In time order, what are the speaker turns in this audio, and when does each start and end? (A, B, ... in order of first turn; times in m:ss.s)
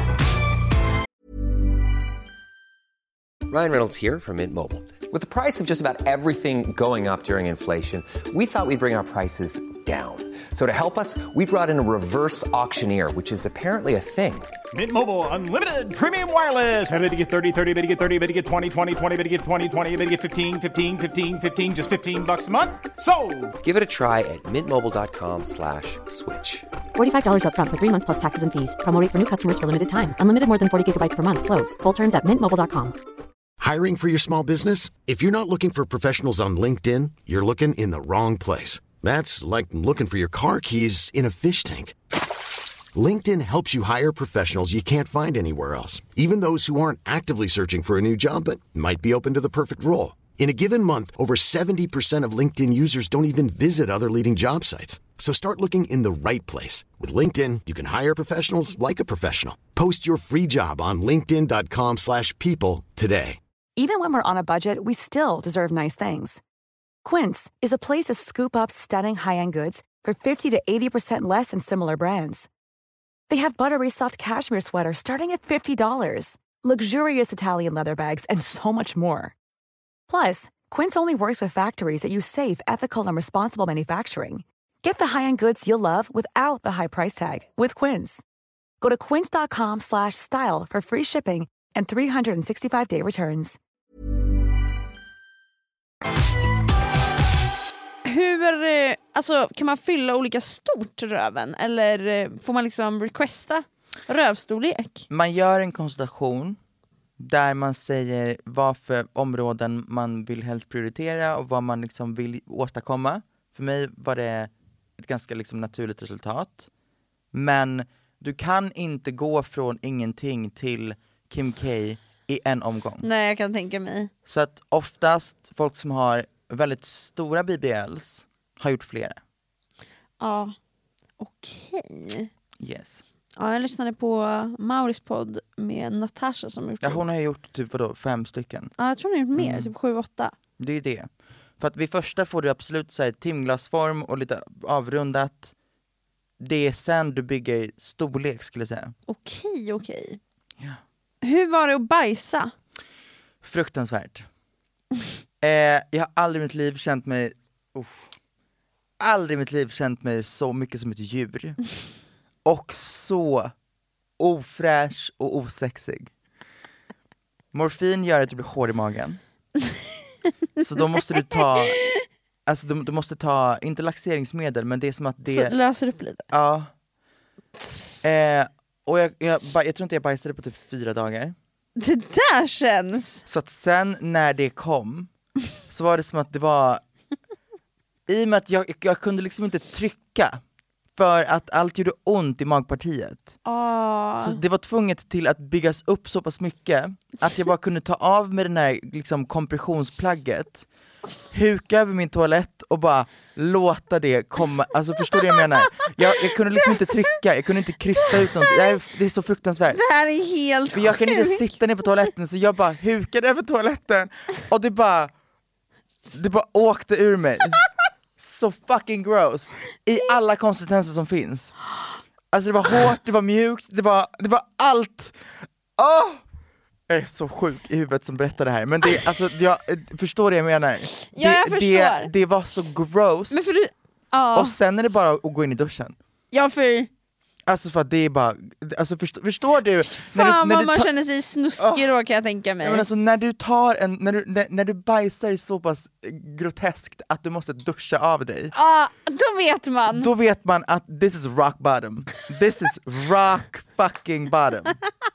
0:03.5-0:14.6 A
0:14.7-0:23.5 B
0:23.6-0:26.7 A
0:27.0-0:33.0 C
0:33.6-0:42.0 D
0:42.9-1:03.4 D
1:03.8-1:06.4 E
1:07.0-1:12.5 E
1:13.3-1:19.4 E
1:20.1-1:28.2 E
1:28.8-1:33.6 E
1:38.0-1:45.1 F
1:45.1-1:46.6 G
1:47.2-1:56.7 G
1:57.3-2:03.1 G
2:03.0-2:04.1 F
2:04.3-2:09.2 G
2:10.2-2:10.5 F
2:11.2-2:12.3 F
2:12.6-2:13.0 G
2:13.4-2:17.0 F
2:16.8-2:18.7 G
2:18.8-2:20.3 F
2:19.4-2:19.7 G
2:20.6-2:25.5 G
2:26.4-2:29.0 G
2:29.1-2:30.2 F
2:31.2-2:32.5 F
2:33.4-2:34.3 G
2:35.4-2:38.1 G
2:39.0-2:41.6 G
2:42.4-2:43.5 G
2:44.2-2:46.1 G
2:47.5-2:49.2 G
2:50.6-2:51.8 G
2:52.5-2:55.5 G
2:55.3-2:56.3 F
2:56.3-2:56.7 G
2:57.6-2:58.0 F
2:58.0-3:01.4 G
3:01.8-3:03.2 F
3:03.3-3:05.1 G
3:05.7-3:06.8 G
3:08.1-3:10.4 G
3:11.0-3:13.4 G
3:13.5-3:14.4 F
3:14.2-3:20.7 G
3:21.3-3:29.8 G
3:25.4-3:27.1 F
3:28.0-3:28.8 F
3:29.7-3:31.4 F
3:30.7-3:35.1 G
3:36.1-3:37.6 G
3:38.2-3:41.6 G
3:42.3-3:46.2 G
3:46.9-3:53.5 G
3:51.1-3:52.1 F
3:53.3-3:54.6 F
3:54.3-3:56.0 G
3:56.3-3:56.9 F
3:57.5-4:00.9 G
3:59.9-4:02.8 F
4:01.6-4:01.9 G
4:02.6-4:08.5 G
4:08.5-4:10.1 F
4:09.9-4:14.8 G